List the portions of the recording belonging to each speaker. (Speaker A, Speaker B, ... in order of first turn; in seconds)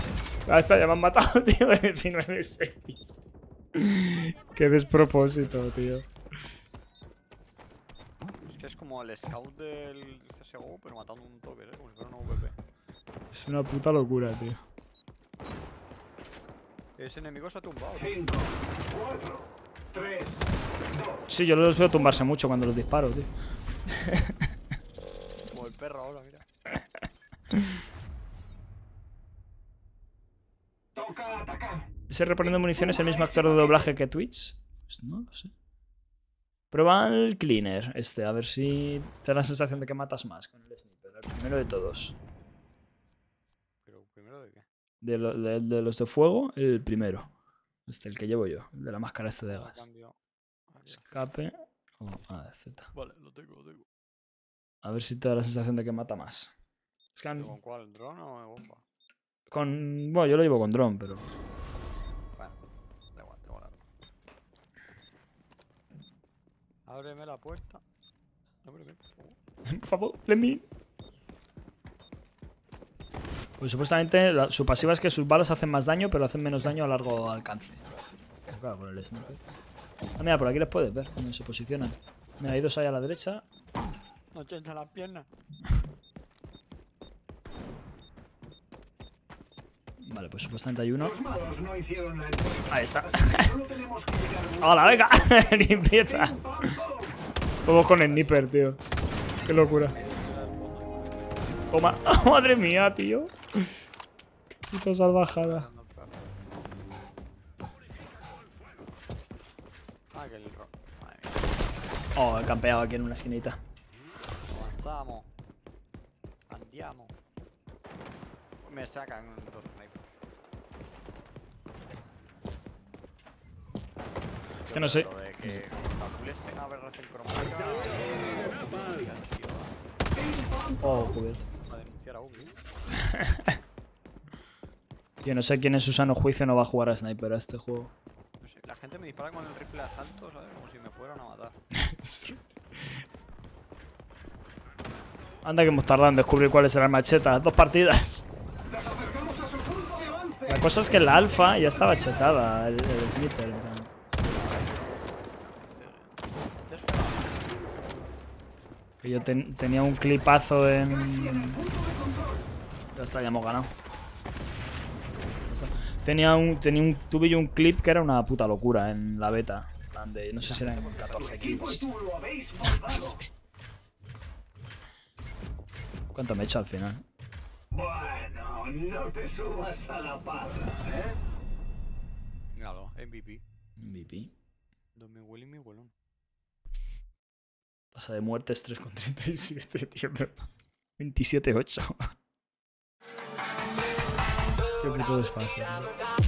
Speaker A: 0.5-3.2, 3.7-6.1, 13.3-14.6, 21.3-23.3, 23.9-24.5, 32.1-35.5, 36.7-42.1, 45.0-47.3, 47.9-49.8, 50.9-52.9, 54.8-56.5, 57.1-57.5, 59.5-61.3, 69.7-70.6, 73.6-77.8, 78.5-79.4, 80.2-83.4, 90.0-91.2, 92.7-93.6, 94.6-96.8, 97.7-98.8, 99.4-100.0, 101.7-103.7, 104.7-105.7, 112.1-113.6, 124.7-125.6, 130.8-131.4, 133.0-133.5, 135.2-137.9, 141.7-143.0, 145.4-148.2, 150.5-153.9, 159.0-161.7, 162.9-163.7, 165.4-171.8, 172.6-173.3, 176.1-177.0, 183.8-184.3, 187.9-192.0, 194.8-195.9
Speaker B: 8.5-12.6, 17.0-18.3, 25.5-26.4, 43.8-44.6, 49.5-50.1, 50.7-51.1, 52.9-53.9, 57.3-58.8, 62.3-62.6, 63.1-63.8, 66.9-67.8, 68.6-69.4, 84.3-85.3, 97.6-98.5, 99.9-102.4, 105.2-106.4, 110.1-111.8, 114.5-115.3, 116.5-117.1, 118.6-120.1, 124.6-129.9, 131.5-132.6, 138.4-141.6, 154.1-158.1, 170.4-171.8, 182.6-183.4, 184.9-185.9
Speaker C: 18.1-20.4, 30.9-31.9, 32.9-33.6, 91.1-97.1, 130.2-131.0, 148.7-150.5, 161.1-162.4, 171.4-173.2, 177.7-181.2